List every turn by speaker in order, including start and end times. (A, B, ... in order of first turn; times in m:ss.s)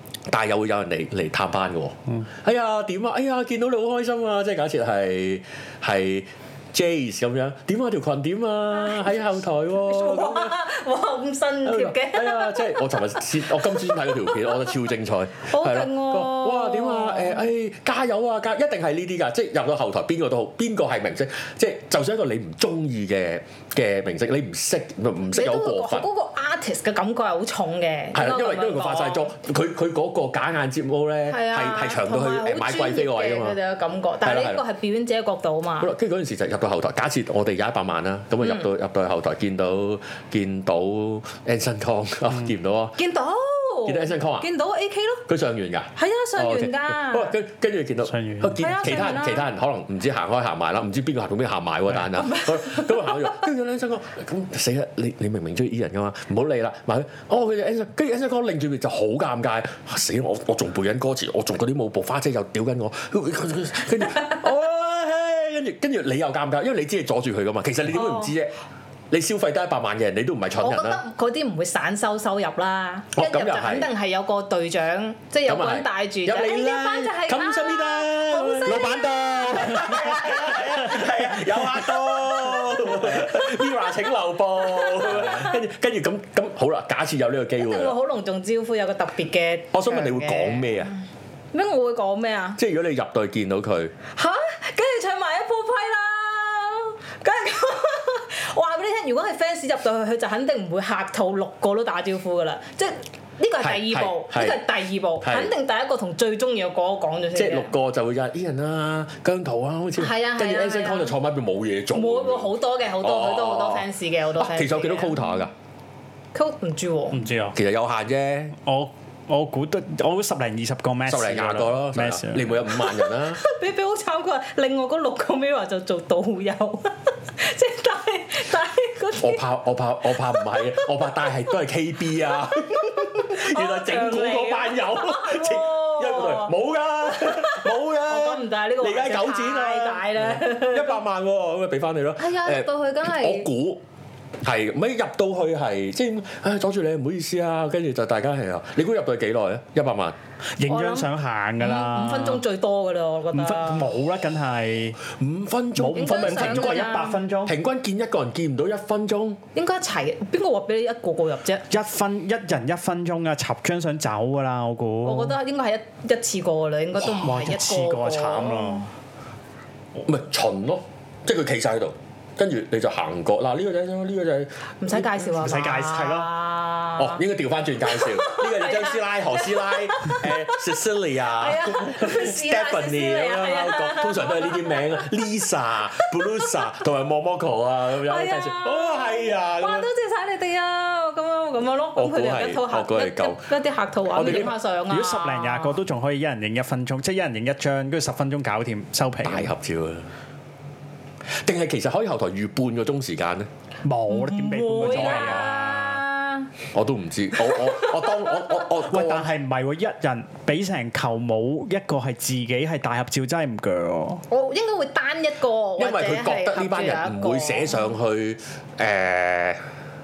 0:00.3-0:10.6 A
0:09.8-0:12.8 B
0:11.6-0:26.1 A
0:13.5-0:14.7 B
0:15.4-0:17.5 B
0:25.3-0:29.3 B
0:28.1-0:33.6 A
0:31.3-0:35.9 B
0:34.2-0:34.6 A
0:35.8-0:43.0 A
0:43.0-0:45.2 B
0:43.9-0:44.5 A
0:45.3-1:08.6 A
0:46.0-0:47.3 B
0:48.0-0:48.6 C
0:48.6-0:49.5 B
0:52.2-0:53.4 B
1:07.9-1:08.4 B
1:09.1-1:11.0 A
1:10.6-1:19.7 B
1:13.1-1:13.9 A
1:15.5-1:28.0 A
1:24.8-1:25.4 B
1:27.6-1:31.0 B
1:29.7-1:30.9 A
1:31.5-1:32.6 B
1:32.6-1:33.9 A
1:34.2-1:47.7 B
1:43.6-1:44.6 A
1:45.2-1:45.5 A
1:47.4-1:55.5 A
1:50.0-1:51.2 B
1:51.9-1:55.2 B
1:56.3-1:57.2 B
1:57.1-1:57.6 C
1:57.5-1:58.6 A
1:58.6-2:02.7 C
2:01.1-2:03.4 A
2:02.8-2:09.4 B
2:09.2-2:23.8 A
2:10.3-2:10.8 B
2:13.4-2:16.5 B
2:17.1-2:21.0 B
2:22.2-2:23.5 B
2:24.4-2:30.2 A
2:30.6-2:32.4 C
2:30.7-2:34.0 B
2:33.3-2:35.0 C
2:35.2-2:36.9 A
2:35.8-2:37.5 C
2:35.9-2:37.2 B
2:37.4-2:39.4 A
2:39.6-2:41.6 B
2:41.7-2:45.4 C
2:45.0-2:48.9 B
2:47.1-2:48.9 C
2:50.0-2:55.6 A
2:54.8-2:57.2 B
2:55.4-2:56.3 C
2:57.0-3:09.9 A
2:57.9-3:00.4 B
3:01.3-3:04.8 B
3:06.0-3:06.5 B
3:08.0-3:15.8 B
3:12.0-3:13.4 A
3:14.1-3:14.6 A
3:14.9-3:19.5 C
3:19.2-3:20.1 A
3:21.3-3:23.5 A
3:23.8-3:26.0 C
3:24.1-3:26.5 B
3:24.8-3:25.5 A
3:26.7-3:29.3 A
3:27.5-3:28.4 B
3:28.9-3:34.2 C
3:34.3-3:37.9 B
3:35.8-3:39.6 A